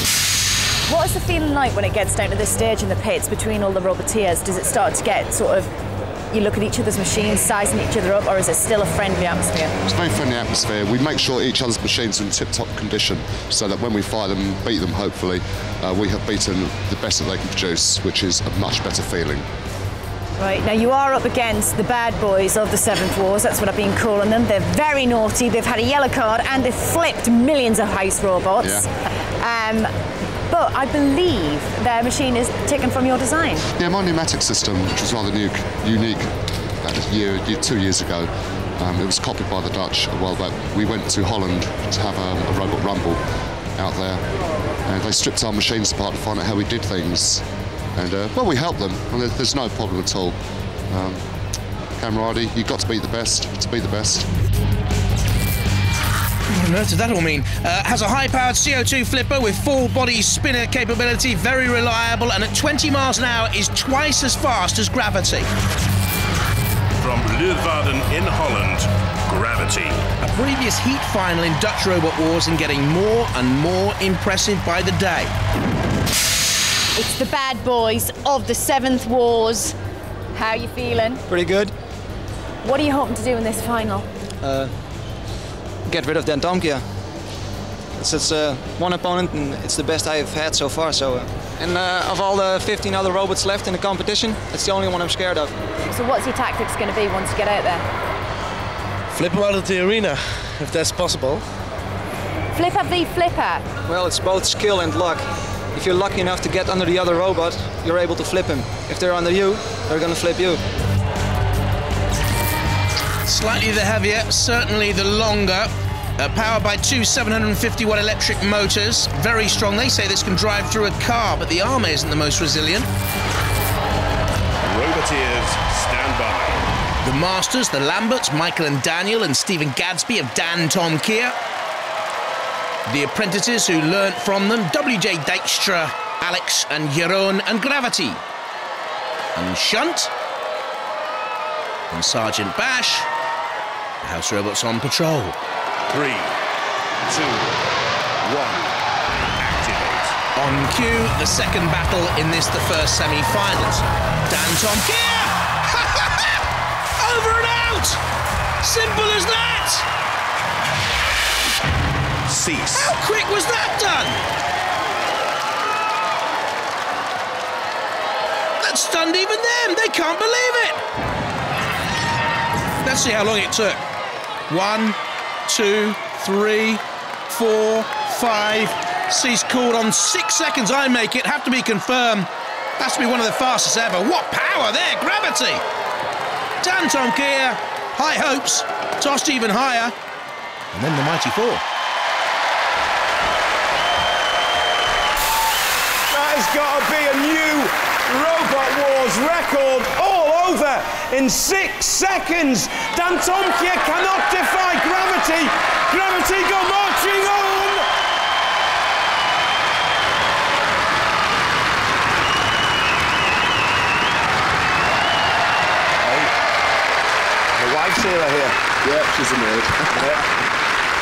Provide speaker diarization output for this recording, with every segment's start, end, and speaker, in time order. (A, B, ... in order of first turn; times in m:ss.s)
0:00.9-0:05.7 A
0:06.3-0:09.7 A
0:09.8-0:19.5 B
0:20.4-0:29.9 A
0:28.6-0:28.9 B
0:30.5-0:33.7 A
0:33.8-0:36.3 B
0:36.8-0:43.2 B
0:43.8-0:44.2 B
0:44.9-0:47.4 B
0:48.0-0:50.4 B
0:50.9-0:51.3 B
0:52.0-0:54.3 B
0:56.5-1:05.5 C
1:07.0-1:10.0 D
1:10.2-1:15.3 C
1:17.0-1:19.8 A
1:20.3-1:21.2 A
1:21.3-1:21.7 E
1:22.6-1:24.1 A
1:24.4-1:24.7 E
1:25.9-1:26.8 E
1:28.0-1:35.5 E
1:35.8-1:37.8 A
1:39.1-1:41.5 F
1:42.5-1:43.6 A
1:43.9-1:50.6 E
1:53.2-2:02.9 C
2:04.7-2:06.7 D
2:07.0-2:11.4 C
2:12.9-2:18.2 C
2:19.4-2:20.1 C
2:21.9-2:23.1 C
2:24.0-2:25.4 C
2:25.9-2:26.3 D
2:27.1-2:27.5 D
2:28.2-2:28.8 D
2:29.4-2:30.2 D
2:30.4-2:36.4 C
2:37.0-2:38.0 C
2:38.6-2:39.9 C
2:42.3-2:42.9 D
2:42.7-2:44.2 C
2:48.6-2:50.8 C
2:52.8-2:53.8 C
2:54.5-2:55.0 C
2:55.5-3:02.3 C
3:02.8-3:05.6 C
3:06.6-3:09.9 C
3:10.7-3:11.6 C
3:16.1-3:27.8 G
3:37.6-3:38.6 G
3:38.8-3:40.1 B